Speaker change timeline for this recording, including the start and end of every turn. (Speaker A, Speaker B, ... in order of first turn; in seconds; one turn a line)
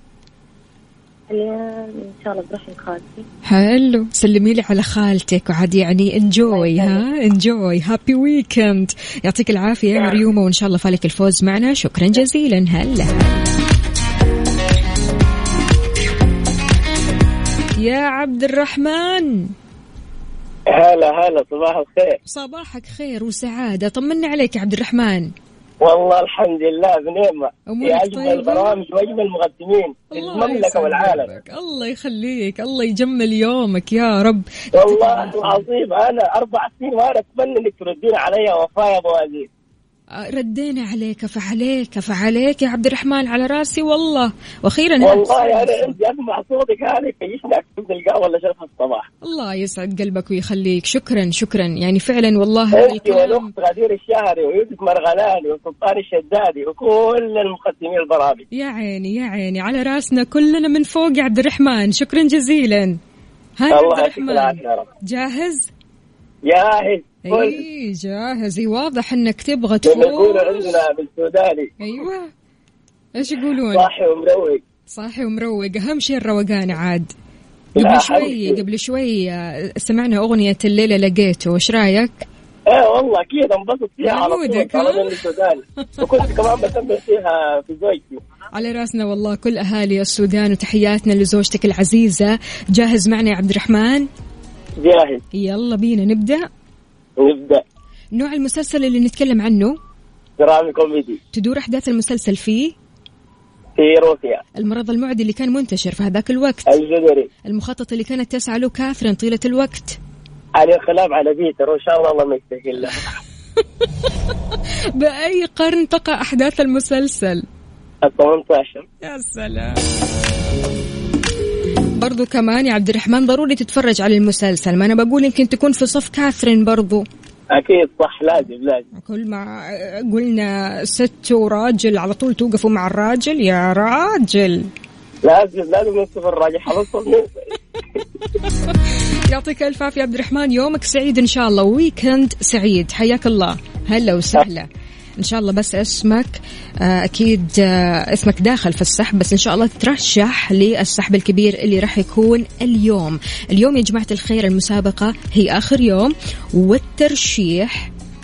Speaker A: 1.3-3.2
Speaker B: 3.4-13.5
Speaker A: 6.5-7.0
Speaker B: 17.8-19.5
Speaker C: 20.7-22.2
Speaker B: 22.2-25.3
Speaker C: 25.8-31.3
Speaker B: 27.7-28.8
Speaker B: 30.1-35.6
Speaker C: 34.7-39.5
Speaker B: 40.1-46.0
Speaker C: 45.0-49.1
Speaker B: 49.2-53.5
Speaker C: 52.7-58.4
Speaker B: 58.5-63.0
Speaker B: 63.6-65.7
Speaker C: 63.7-64.9
Speaker C: 66.5-67.6
Speaker B: 67.3-70.8
Speaker C: 69.8-71.7
Speaker B: 71.8-72.3
Speaker B: 73.2-73.9
Speaker C: 73.7-74.6
Speaker B: 74.9-77.1
Speaker C: 77.8-78.6
Speaker B: 77.8-82.2
Speaker C: 82.7-88.2
Speaker B: 84.0-85.2
Speaker B: 88.5-94.1
Speaker C: 94.8-95.2
Speaker B: 95.3-96.5
Speaker C: 97.2-97.6
Speaker B: 98.1-99.8
Speaker C: 100.4-101.2
Speaker B: 101.3-102.7
Speaker C: 103.8-104.4
Speaker B: 104.6-106.7
Speaker C: 106.7-107.3
Speaker B: 107.5-110.0
Speaker C: 110.6-113.2
Speaker B: 114.9-117.5
Speaker C: 118.0-118.8
Speaker B: 119.0-120.7
Speaker B: 122.0-127.0
Speaker C: 127.5-128.8
Speaker B: 128.9-134.7
Speaker C: 135.2-137.4
Speaker B: 138.4-157.9